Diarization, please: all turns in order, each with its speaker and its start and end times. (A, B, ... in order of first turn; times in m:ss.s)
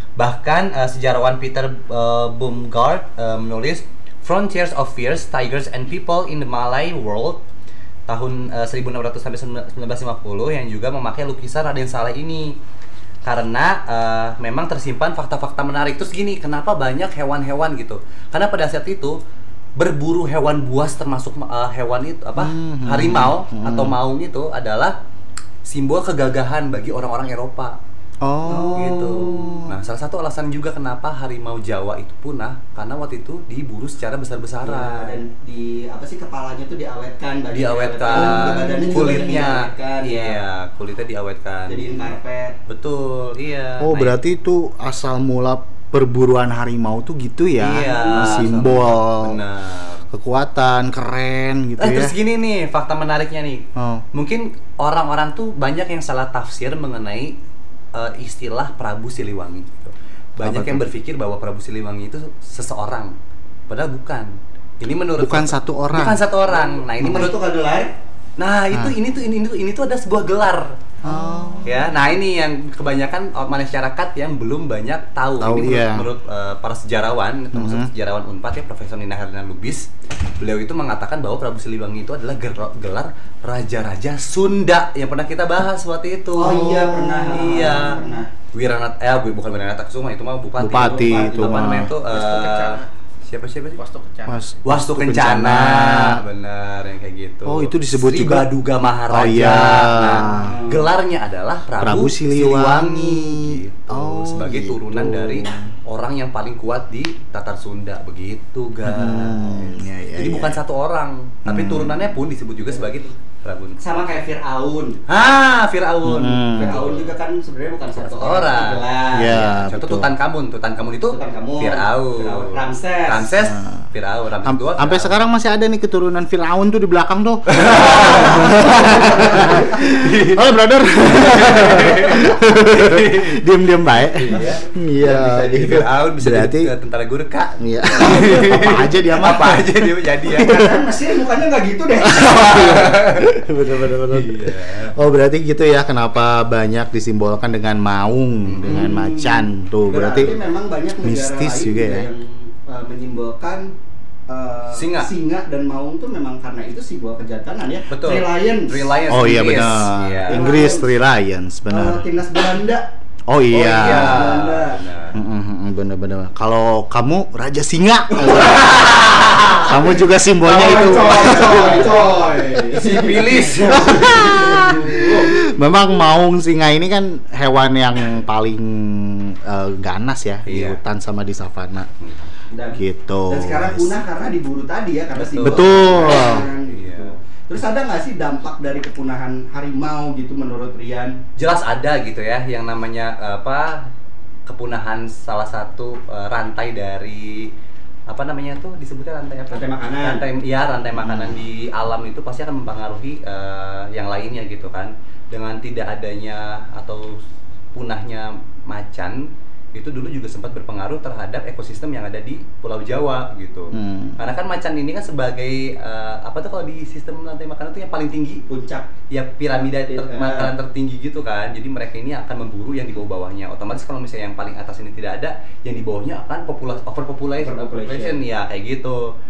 0:00.2-0:07.4 A
0:08.1-0:12.6 A
0:13.2-0:19.2 A
0:19.8-0:25.0 A
0:22.4-0:24.0 B
0:25.6-0:27.8 A
0:28.2-0:29.8 B
0:28.4-0:29.5 C
0:28.7-0:35.2 A
0:34.6-0:40.4 C
0:37.5-0:42.1 A
0:38.1-0:39.0 B
0:41.7-0:42.6 C
0:42.7-0:44.2 A
0:43.8-0:49.4 B
0:47.6-0:50.1 A
0:48.1-0:48.4 C
0:50.1-0:52.2 B
0:51.8-0:57.4 A
0:53.8-0:54.0 B
0:57.9-1:03.2 A
1:00.4-1:00.9 B
1:03.7-1:07.4 A
1:05.2-1:06.2 B
1:07.0-1:07.9 C
1:08.4-1:10.9 A
1:11.0-1:11.8 B
1:11.6-1:33.8 A
1:15.4-1:16.1 B
1:17.5-1:17.9 B
1:26.3-1:28.3 C
1:30.6-1:31.9 B
1:30.8-1:32.9 C
1:33.8-1:34.4 C
1:34.3-1:36.2 B
1:34.6-1:54.1 A
1:37.4-1:38.5 B
1:39.1-1:40.6 B
1:40.3-1:40.9 C
1:41.8-1:45.7 B
1:48.8-1:50.6 B
1:51.4-1:52.0 B
1:53.8-1:55.0 C
1:55.1-1:57.2 A
1:56.0-1:56.9 B
1:56.6-1:59.4 C
1:58.0-2:05.2 A
1:59.1-2:00.1 B
2:01.1-2:03.4 C
2:03.4-2:03.8 B
2:04.4-2:16.7 B
2:07.5-2:13.4 A
2:08.6-2:09.6 C
2:14.0-2:20.6 A
2:17.6-2:20.8 B
2:20.3-2:23.0 C
2:22.0-2:30.4 B
2:22.2-2:25.0 A
2:28.4-2:28.9 A
2:28.6-2:33.7 C
2:31.0-2:32.1 B
2:34.3-2:39.0 C
2:34.7-2:35.1 A
2:37.9-2:40.6 A
2:39.1-2:42.1 B
2:40.3-2:40.9 C
2:41.7-2:42.9 C
2:43.3-2:44.4 B
2:43.5-2:45.2 A
2:43.5-2:44.8 C
2:45.1-2:48.6 B
2:48.2-2:48.7 C
2:48.3-2:49.9 A
2:49.6-2:52.0 B
2:50.4-2:54.6 A
2:50.4-2:55.3 C
2:53.7-3:01.9 B
3:00.5-3:00.8 A
3:02.0-3:02.3 A
3:02.5-3:11.2 C
3:02.8-3:04.0 B
3:05.2-3:07.1 A
3:05.4-3:06.5 B
3:11.4-3:13.9 A
3:14.5-3:17.5 A
3:18.1-3:27.2 A
3:19.5-3:20.3 C
3:21.0-3:21.4 B
3:27.7-3:38.4 A
3:33.7-3:34.2 B
3:38.5-3:38.9 C
3:39.1-3:49.1 A
3:39.8-3:40.6 C
3:47.4-3:48.2 C